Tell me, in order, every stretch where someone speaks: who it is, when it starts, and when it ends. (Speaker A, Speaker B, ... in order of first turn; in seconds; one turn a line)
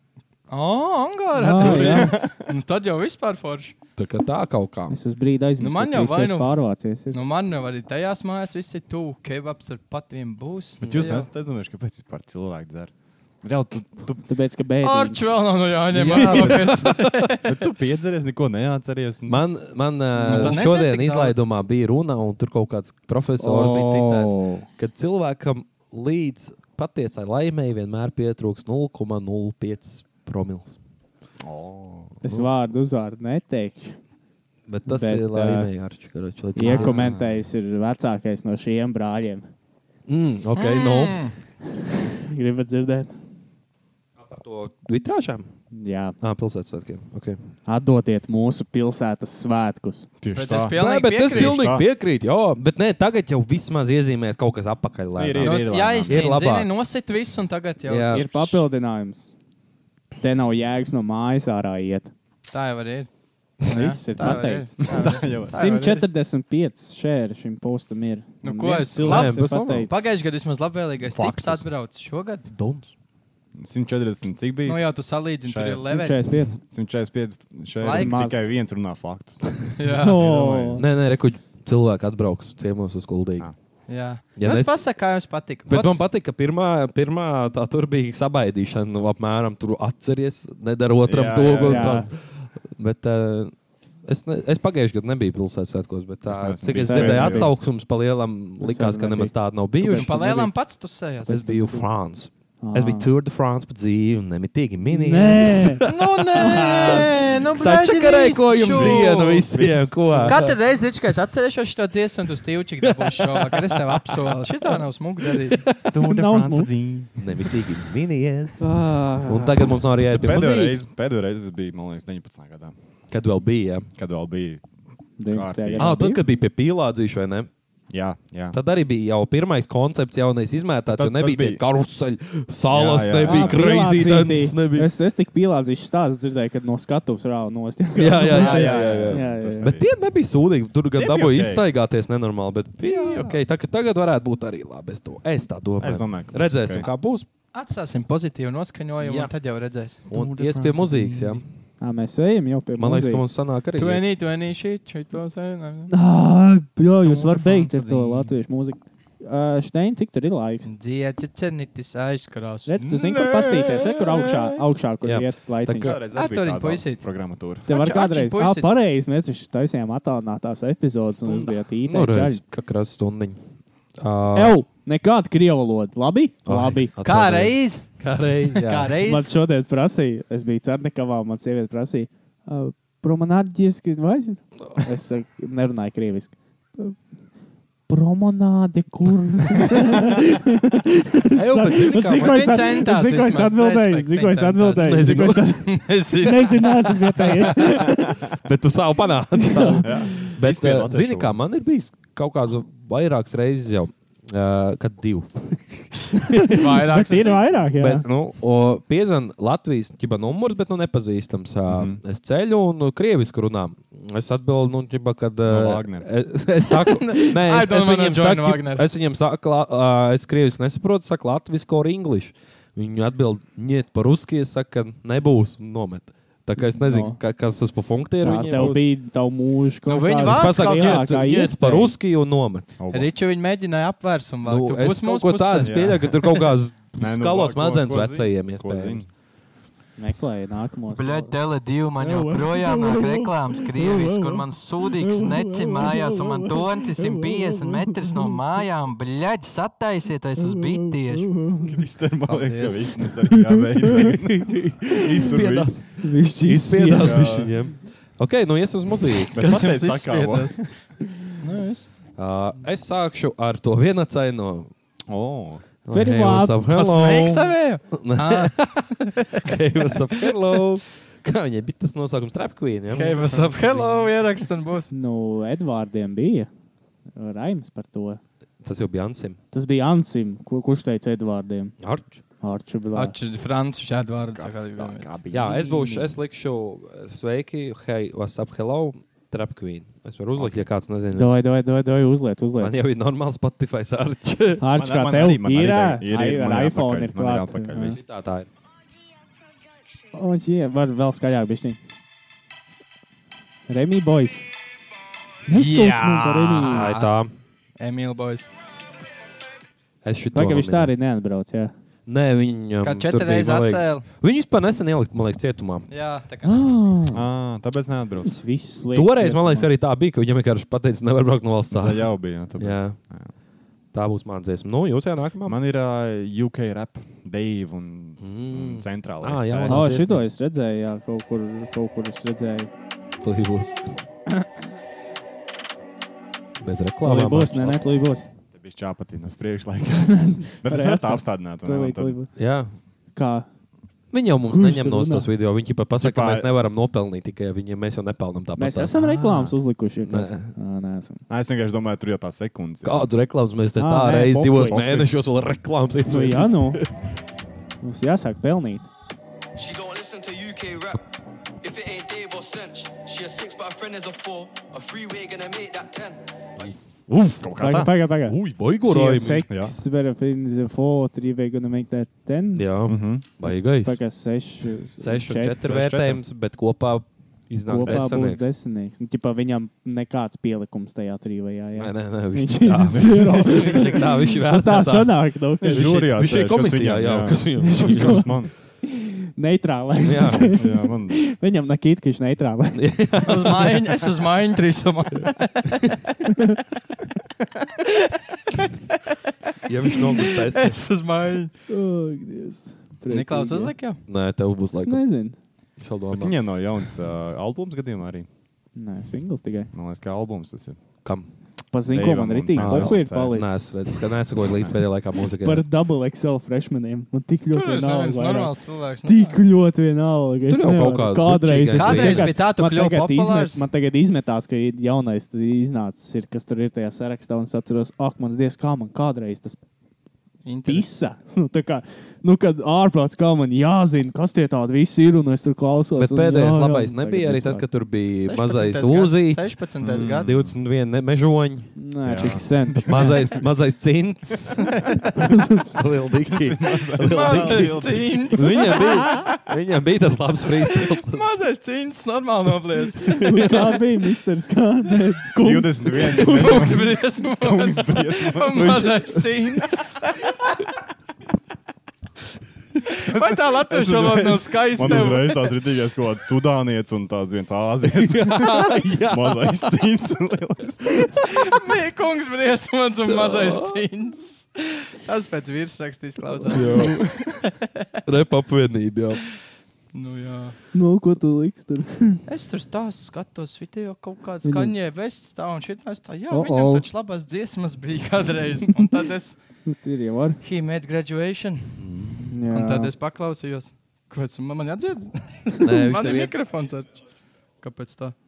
Speaker A: 0.5-3.7
Speaker B: 1.3-2.1
Speaker C: 1.5-2.5
Speaker D: 4.0-5.0
Speaker B: 4.9-7.2
Speaker A: 5.6-6.5
Speaker A: 7.1-11.3
Speaker C: 10.8-12.9
Speaker C: 13.4-14.2
Speaker B: 14.3-15.2
Speaker A: 14.8-17.6
Speaker C: 15.9-19.6
Speaker D: 15.9-17.3
Speaker D: 19.3-30.8
Speaker C: 20.2-20.5
Speaker A: 20.2-21.4
Speaker B: 23.4-24.6
Speaker C: 31.4-32.2
Speaker B: 32.2-34.0
Speaker D: 34.7-37.0
Speaker B: 34.9-35.7
Speaker B: 36.5-39.5
Speaker C: 36.6-37.3
Speaker D: 40.1-41.2
Speaker A: 40.5-41.3
Speaker B: 41.8-43.1
Speaker D: 44.2-45.5
Speaker B: 45.7-46.1
Speaker D: 46.2-47.4
Speaker B: 47.7-50.1
Speaker C: 50.2-51.9
Speaker A: 50.3-51.7
Speaker D: 50.7-56.7
Speaker C: 55.1-56.3
Speaker A: 55.4-58.6
Speaker D: 57.9-58.2
Speaker B: 58.1-59.3
Speaker B: 60.2-62.1
Speaker A: 62.5-63.1
Speaker A: 63.6-66.0
Speaker B: 63.6-64.7
Speaker C: 64.3-65.9
Speaker B: 65.5-70.2
Speaker A: 68.4-72.5
Speaker D: 69.0-69.8
Speaker C: 71.0-71.7
Speaker D: 72.5-72.9
Speaker C: 73.5-74.8
Speaker A: 74.7-76.2
Speaker C: 75.4-75.9
Speaker B: 75.8-76.6
Speaker C: 76.6-80.8
Speaker B: 77.8-78.4
Speaker A: 77.8-78.2
Speaker A: 79.8-80.2
Speaker B: 79.9-80.8
Speaker D: 80.8-83.5
Speaker A: 83.9-86.0
Speaker D: 84.4-84.8
Speaker D: 85.7-93.5
Speaker C: 91.0-92.1
Speaker B: 91.6-92.1
Speaker D: 94.0-100.5
Speaker C: 96.3-97.6
Speaker B: 96.7-97.6
Speaker B: 98.6-100.5
Speaker A: 99.9-101.4
Speaker D: 101.3-110.6
Speaker B: 101.3-101.8
Speaker B: 102.6-103.1
Speaker B: 104.8-105.8
Speaker A: 105.8-109.5
Speaker B: 106.4-107.1
Speaker C: 108.7-110.3
Speaker A: 110.2-115.6
Speaker D: 112.8-115.9
Speaker C: 115.8-117.3
Speaker B: 116.0-116.7
Speaker D: 117.2-118.7
Speaker B: 118.6-119.6
Speaker D: 119.2-120.8
Speaker C: 120.1-122.7
Speaker D: 123.1-123.9
Speaker C: 123.9-124.6
Speaker B: 125.2-126.2
Speaker C: 125.3-125.9
Speaker D: 125.8-127.5
Speaker C: 127.9-128.6
Speaker D: 128.5-134.9
Speaker C: 130.9-131.6
Speaker C: 132.7-133.6
Speaker B: 133.2-139.7
Speaker D: 138.0-147.3
Speaker C: 138.3-139.9
Speaker C: 140.9-141.6
Speaker C: 142.9-143.4
Speaker C: 145.8-146.9
Speaker A: 147.5-150.0
Speaker D: 149.0-149.3
Speaker C: 150.1-151.4
Speaker D: 150.1-151.4
Speaker B: 151.8-153.2
Speaker D: 152.8-154.0
Speaker A: 153.8-155.9
Speaker B: 155.9-160.7
Speaker C: 157.7-158.2
Speaker A: 160.6-162.8
Speaker B: 162.7-166.0
Speaker C: 162.8-164.6
Speaker D: 165.0-166.0
Speaker C: 165.8-167.7
Speaker A: 166.1-167.0
Speaker A: 167.7-168.7
Speaker B: 167.7-172.4
Speaker D: 171.8-173.4
Speaker D: 174.0-174.6
Speaker B: 174.3-176.9
Speaker D: 176.4-179.0
Speaker A: 177.0-177.8
Speaker A: 178.5-179.3
Speaker B: 179.0-186.9
Speaker B: 187.9-198.2
Speaker D: 191.3-192.8
Speaker A: 192.1-194.9
Speaker D: 194.7-195.6
Speaker A: 195.6-197.7
Speaker D: 198.3-206.3
Speaker B: 199.3-200.3
Speaker C: 199.8-201.4
Speaker B: 206.2-208.1
Speaker A: 206.5-207.4
Speaker D: 207.8-228.8
Speaker C: 211.7-212.0
Speaker C: 215.4-216.1
Speaker A: 216.7-218.8
Speaker B: 226.6-227.2
Speaker B: 228.2-231.9
Speaker C: 228.5-228.8
Speaker A: 229.9-231.1
Speaker D: 230.2-232.7
Speaker C: 232.8-233.1
Speaker A: 232.9-236.3
Speaker D: 234.4-239.0
Speaker C: 235.6-236.1
Speaker C: 237.0-239.1
Speaker B: 240.0-241.3
Speaker A: 240.9-251.3
Speaker B: 242.0-248.4
Speaker B: 250.4-251.8
Speaker C: 251.6-255.8
Speaker A: 252.2-252.8
Speaker B: 253.2-254.1
Speaker D: 254.3-259.4
Speaker B: 256.0-257.3
Speaker C: 256.9-257.5
Speaker C: 259.3-260.7
Speaker A: 259.4-260.7
Speaker A: 261.4-261.9
Speaker D: 262.2-264.7
Speaker C: 265.1-265.6
Speaker D: 265.8-268.7
Speaker B: 265.9-266.6
Speaker A: 266.7-270.3
Speaker D: 269.4-273.8
Speaker A: 272.9-274.9
Speaker B: 274.9-276.5
Speaker B: 277.1-278.2
Speaker D: 278.6-279.4
Speaker B: 279.5-281.7
Speaker D: 281.8-282.2
Speaker B: 282.4-283.1
Speaker A: 282.9-285.1
Speaker C: 284.3-286.1
Speaker D: 285.3-291.3
Speaker C: 290.3-290.7
Speaker B: 291.1-292.8
Speaker D: 292.6-294.6
Speaker B: 294.6-298.0
Speaker C: 294.7-298.0
Speaker D: 297.9-298.5
Speaker B: 300.1-301.8
Speaker B: 303.7-304.4
Speaker B: 305.5-306.9
Speaker A: 305.6-307.1
Speaker D: 306.2-307.3
Speaker A: 307.8-308.5
Speaker D: 310.0-310.9
Speaker B: 310.3-311.7
Speaker D: 312.1-315.9
Speaker A: 312.8-314.0
Speaker A: 315.9-316.9
Speaker B: 316.4-317.2
Speaker C: 317.1-318.4
Speaker B: 318.2-319.7
Speaker D: 318.9-323.0
Speaker C: 321.7-323.3
Speaker D: 323.9-325.6
Speaker C: 325.4-329.9
Speaker D: 328.2-330.2
Speaker B: 329.7-332.7
Speaker D: 333.2-333.9
Speaker D: 336.6-337.9
Speaker B: 337.0-338.3
Speaker C: 338.5-342.2
Speaker B: 339.9-342.3
Speaker D: 342.4-342.7
Speaker B: 343.1-343.5
Speaker D: 344.1-348.9
Speaker B: 344.4-345.2
Speaker C: 346.0-346.5
Speaker B: 348.6-351.2
Speaker C: 348.9-349.6
Speaker D: 350.0-350.5
Speaker C: 351.3-353.1
Speaker D: 352.8-356.9
Speaker B: 353.8-355.0
Speaker C: 354.7-355.1
Speaker B: 356.1-356.8
Speaker B: 357.8-358.9
Speaker E: 359.5-361.0
Speaker E: 361.6-366.7
Speaker D: 367.1-367.4
Speaker C: 367.4-367.9
Speaker B: 367.5-372.6
Speaker D: 368.2-369.4
Speaker C: 369.5-369.7
Speaker D: 372.6-374.0
Speaker C: 372.9-373.2
Speaker B: 373.4-375.6
Speaker D: 375.0-378.4
Speaker C: 375.5-376.2
Speaker B: 377.6-386.0
Speaker C: 377.8-378.2
Speaker D: 381.8-388.3
Speaker C: 382.9-383.5
Speaker C: 385.6-388.5
Speaker B: 387.6-388.3
Speaker B: 388.8-393.2
Speaker D: 390.0-390.6
Speaker C: 390.3-391.2
Speaker D: 392.8-394.1
Speaker A: 393.2-396.0
Speaker A: 397.8-399.1
Speaker D: 399.7-400.8
Speaker A: 399.9-401.5
Speaker B: 401.7-403.7
Speaker A: 403.1-404.0
Speaker D: 404.1-405.0
Speaker B: 404.7-405.4
Speaker D: 405.8-406.4
Speaker C: 406.1-408.3
Speaker B: 408.8-409.7
Speaker C: 409.7-410.8
Speaker B: 411.7-413.7
Speaker C: 411.9-413.4
Speaker D: 412.6-415.6
Speaker B: 415.4-418.5
Speaker A: 417.5-419.4
Speaker B: 419.0-429.6
Speaker D: 420.5-422.4
Speaker A: 421.7-423.6
Speaker A: 430.4-430.9
Speaker B: 430.6-437.6
Speaker D: 436.0-442.3
Speaker A: 438.2-440.3
Speaker C: 439.8-440.5
Speaker B: 441.8-443.2
Speaker C: 442.1-443.3
Speaker D: 442.8-451.4
Speaker A: 444.6-445.1
Speaker B: 445.1-445.8
Speaker C: 446.2-448.7
Speaker A: 447.1-449.4
Speaker B: 448.8-449.3
Speaker A: 450.6-453.7
Speaker D: 453.1-453.8
Speaker B: 453.1-456.8
Speaker C: 455.4-459.1
Speaker A: 456.1-460.6
Speaker D: 458.6-459.1
Speaker A: 462.9-465.5
Speaker C: 463.1-471.5
Speaker D: 464.8-465.1
Speaker D: 467.9-469.7
Speaker A: 471.2-477.6
Speaker D: 473.1-473.8
Speaker D: 476.5-477.0
Speaker C: 476.5-477.1
Speaker D: 478.0-479.2
Speaker A: 479.9-480.6
Speaker B: 480.7-482.2
Speaker A: 482.3-489.4
Speaker B: 484.4-484.7
Speaker B: 486.3-486.9
Speaker B: 489.6-490.4
Speaker A: 490.4-491.8
Speaker D: 491.8-492.3
Speaker B: 492.3-492.9
Speaker A: 492.5-497.0
Speaker D: 495.6-496.3
Speaker A: 497.6-498.1